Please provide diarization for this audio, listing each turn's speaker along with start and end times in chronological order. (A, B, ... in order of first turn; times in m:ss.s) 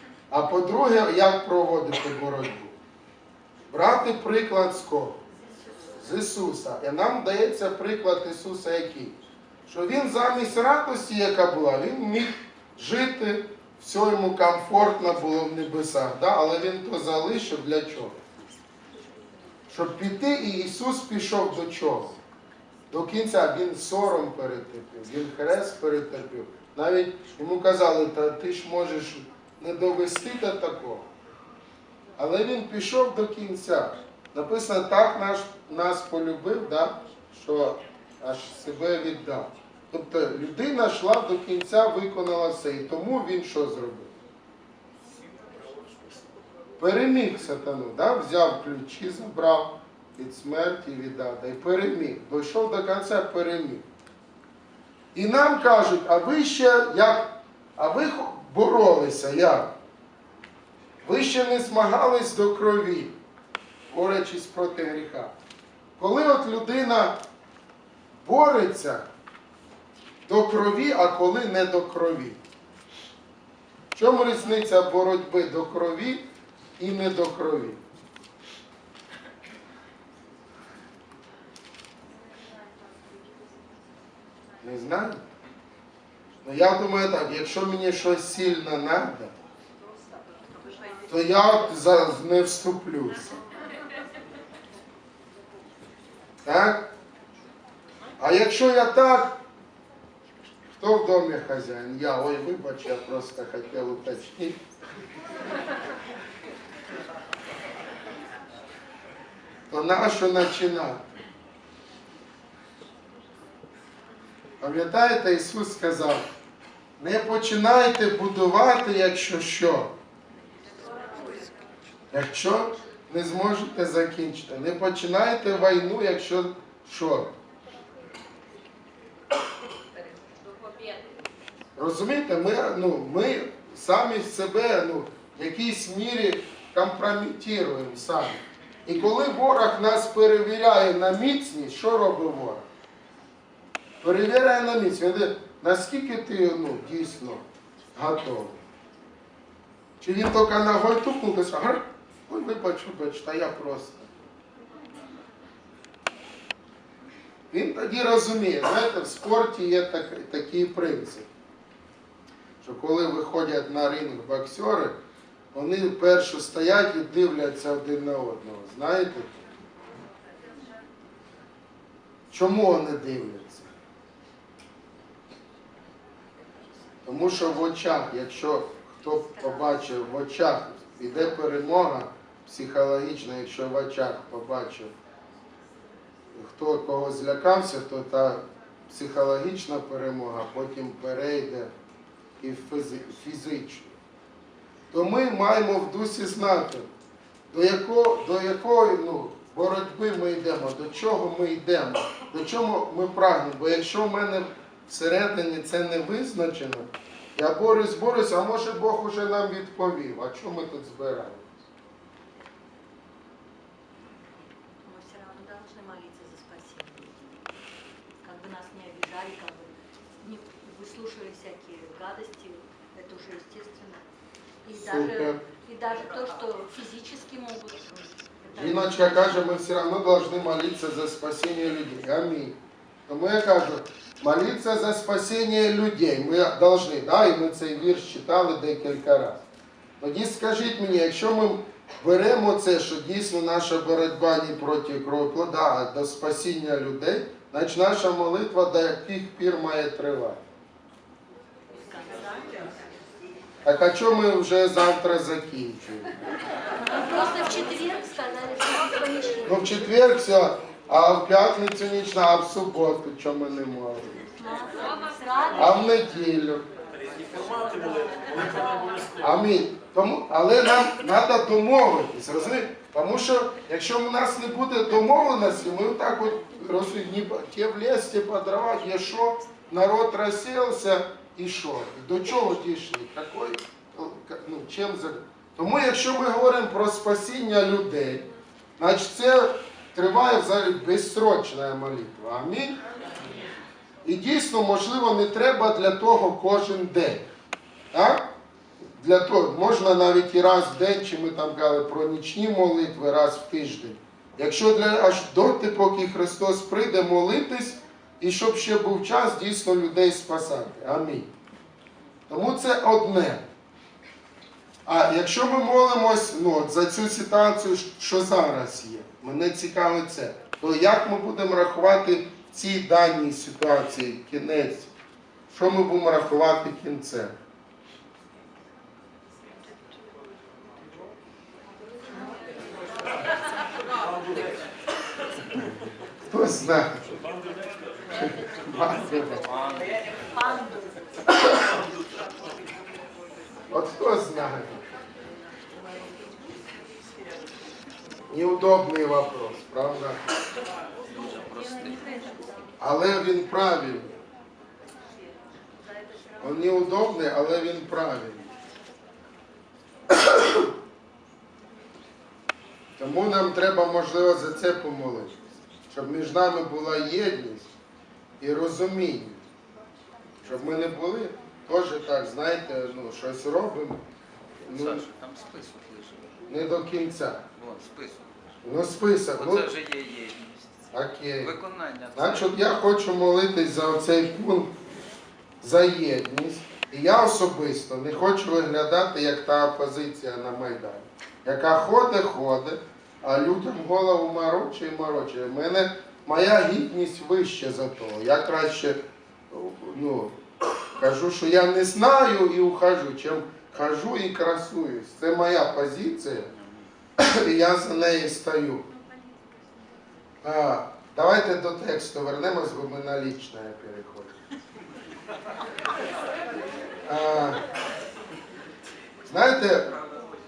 0:00.3-0:02.8 A
0:03.7-0:05.2 A
0:06.0-0:18.2 A
0:19.7-0:22.2 A
0:22.9-0:31.1 A
0:32.2-0:44.1 A
0:46.8-0:53.8 A
0:55.2-0:59.7 A
1:01.0-1:03.2 A
1:03.9-1:05.3 A
1:06.0-1:07.2 A
1:08.2-1:09.1 A
1:10.3-1:12.4 A
1:13.9-1:16.2 A
1:16.8-1:17.8 A
1:24.6-1:25.2 A
1:26.4-1:29.3 A
1:31.1-1:33.4 A
1:36.4-1:36.9 A
1:38.2-1:39.4 A
1:40.7-1:44.6 A
1:49.7-1:51.0 A
1:54.6-1:56.3 A
1:57.0-1:59.9 A
2:02.1-2:07.3 A
2:11.8-2:22.6 A
2:24.0-2:28.6 A
2:30.0-2:34.2 A
2:37.5-2:41.3 A
2:42.6-2:45.0 A
2:45.5-2:49.4 A
2:52.3-2:53.7 A
2:57.0-3:04.9 A
3:06.3-3:11.7 A
3:12.4-3:14.0 A
3:14.9-3:16.9 A
3:17.5-3:31.6 A
3:34.9-3:37.2 B
3:38.2-3:44.0 B
3:44.7-3:48.5 B
3:44.7-3:45.4 A
3:48.5-3:52.6 A
3:53.1-3:59.4 A
4:00.0-4:10.4 A
4:11.9-4:12.5 B
4:13.6-4:16.2 A
4:17.0-4:19.4 B
4:19.4-4:24.3 A
4:24.5-4:25.5 B
4:25.5-4:26.6 A
4:29.2-4:48.3 A
4:48.8-4:52.8 A
4:54.0-4:57.2 A
4:57.9-4:58.2 A
4:59.0-5:11.3 A
5:12.3-5:13.4 A
5:14.9-5:24.9 A
5:25.5-5:27.3 A
5:36.3-5:37.0 A
5:38.2-5:39.5 A
5:43.7-5:44.8 A
5:48.3-5:50.2 A
5:51.1-5:52.2 C
5:52.8-5:54.2 A
5:56.4-5:58.5 A
6:00.1-6:00.7 A
6:03.0-6:05.4 A
6:05.9-6:07.7 A
6:08.4-6:09.4 A
6:10.4-6:14.0 A
6:14.6-6:15.1 A
6:15.1-6:16.2 C
6:16.5-6:17.4 A
6:17.6-6:18.2 C
6:18.6-6:19.8 A
6:19.8-6:20.5 C
6:20.9-6:21.6 A
6:21.6-6:22.1 C
6:22.2-6:24.7 A
6:25.6-6:39.0 A
6:39.5-6:46.5 A
6:47.2-6:48.9 A
6:50.4-6:54.4 A
6:57.1-6:57.6 A
6:59.3-6:59.9 A